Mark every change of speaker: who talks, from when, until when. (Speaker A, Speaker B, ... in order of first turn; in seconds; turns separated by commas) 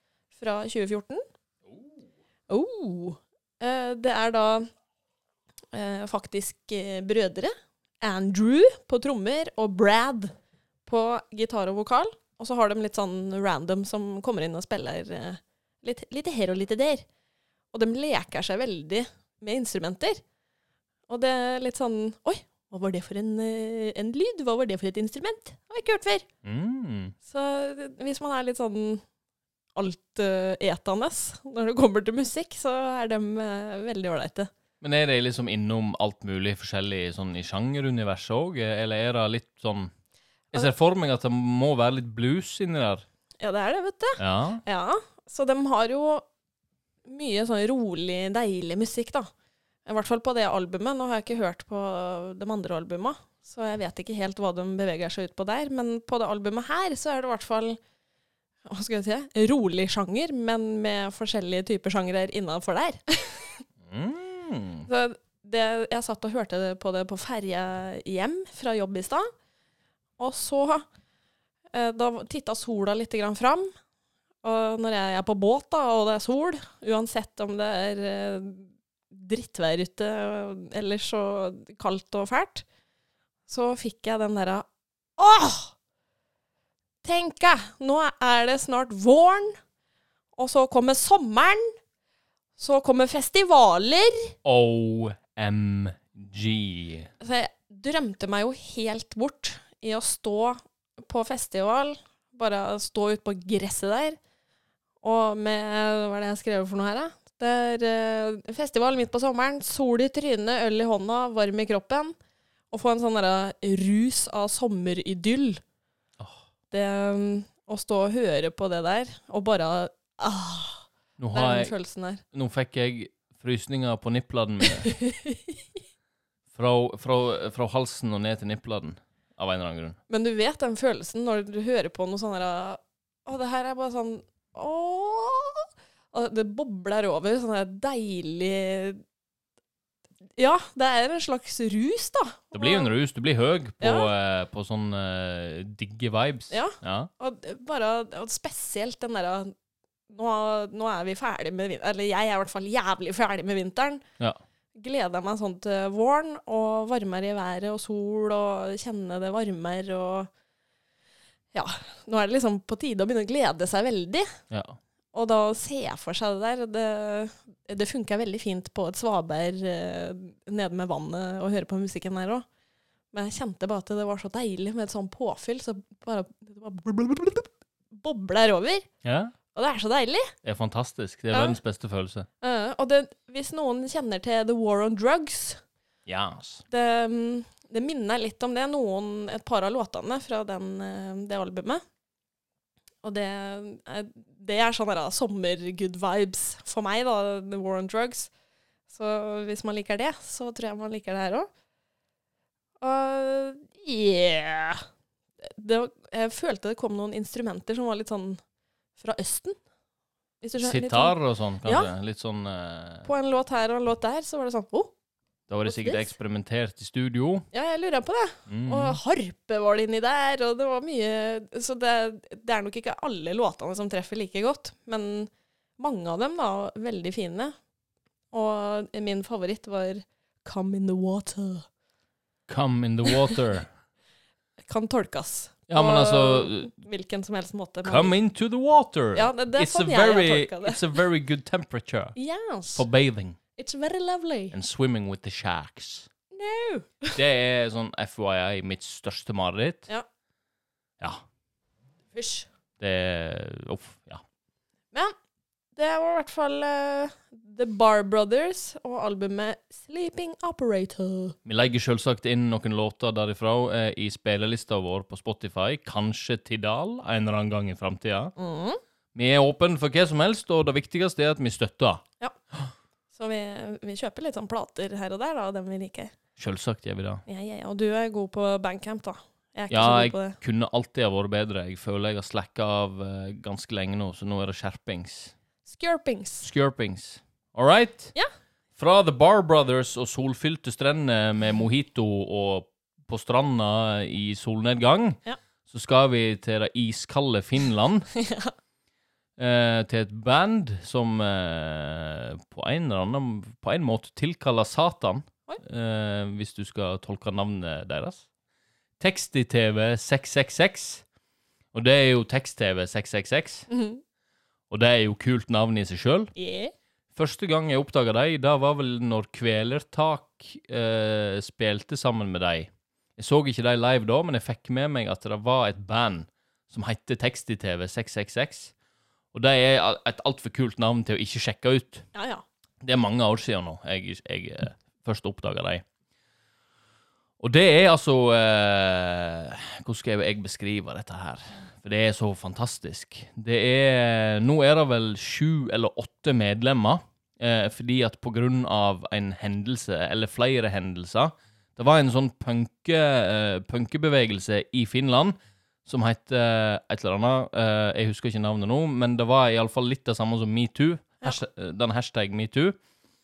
Speaker A: 0.3-1.2, Speaker A: 2.5-4.7, Speaker A: 5.7-10.3, Speaker A: 10.9-17.1, Speaker A: 17.7-20.2, Speaker A: 21.1-26.2, Speaker B: 26.4-27.1, Speaker A: 27.2-29.0, Speaker A: 29.7-34.5, Speaker B: 34.8-39.9, Speaker B: 40.5-43.0, Speaker A: 43.4-46.3, Speaker B: 44.2-44.6, Speaker A: 47.0-49.3, Speaker A: 49.9-57.8, Speaker A: 58.6-63.6, Speaker B: 63.9-64.9, Speaker A: 64.9-69.3, Speaker A: 70.2-70.8, Speaker A: 71.7-73.7, Speaker A: 74.4-82.6, Speaker A: 83.5-84.6, Speaker A: 85.2-85.7, Speaker A: 87.0-89.6, Speaker A: 90.4-91.7, Speaker A: 92.6-94.3, Speaker B: 94.4-97.1, Speaker A: 97.2-104.2, Speaker A: 105.0-112.1, Speaker A: 112.7-115.6, Speaker A: 116.7-122.2, Speaker B: 121.2-121.7, Speaker B: 122.3-124.9, Speaker A: 124.8-125.6, Speaker B: 126.5-130.0, Speaker A: 130.1-139.0, Speaker A: 140.3-142.9, Speaker B: 142.5-147.1, Speaker A: 143.8-144.1, Speaker A: 146.5-149.5, Speaker A: 150.1-154.0, Speaker A: 154.8-160.3, Speaker A: 161.5-164.3, Speaker B: 164.5-164.8, Speaker A: 165.1-172.4, Speaker A: 173.1-178.9, Speaker B: 179.0-179.3, Speaker A: 179.5-180.3, Speaker B: 180.4-182.3, Speaker A: 181.3-181.6, Speaker A: 182.4-185.6, Speaker B: 186.1-186.6, Speaker A: 186.7-191.8, Speaker A: 193.0-198.3, Speaker A: 198.9-201.5, Speaker A: 202.8-204.8, Speaker A: 205.4-208.4, Speaker A: 209.0-209.6, Speaker A: 210.4-211.9, Speaker B: 210.6-213.1, Speaker A: 213.0-214.9, Speaker B: 215.5-217.4, Speaker A: 215.7-216.1, Speaker A: 217.5-227.5, Speaker B: 218.5-219.0, Speaker A: 228.3-231.7, Speaker B: 232.5-233.7, Speaker A: 234.6-238.1, Speaker B: 235.7-236.7, Speaker B: 237.8-242.1, Speaker A: 239.1-240.8, Speaker A: 242.2-242.8, Speaker B: 242.7-243.4, Speaker A: 243.6-244.5, Speaker B: 244.5-246.1, Speaker A: 246.3-247.2, Speaker B: 247.1-249.9, Speaker A: 252.1-252.5, Speaker B: 252.8-254.2, Speaker A: 255.8-261.4, Speaker B: 261.4-268.3, Speaker A: 268.4-268.8, Speaker B: 269.1-272.0, Speaker A: 273.1-276.1, Speaker B: 276.4-277.2, Speaker A: 277.3-280.4, Speaker B: 279.7-285.3, Speaker A: 285.6-286.5, Speaker B: 286.4-288.1, Speaker B: 288.8-298.1, Speaker A: 298.1-298.5, Speaker B: 299.4-308.2, Speaker B: 309.0-311.0, Speaker B: 311.7-313.7, Speaker A: 313.7-314.0, Speaker B: 314.7-316.3, Speaker A: 316.4-316.7, Speaker B: 317.1-328.7, Speaker B: 329.3-332.1, Speaker A: 332.1-332.4, Speaker B: 332.8-335.8, Speaker B: 337.4-362.8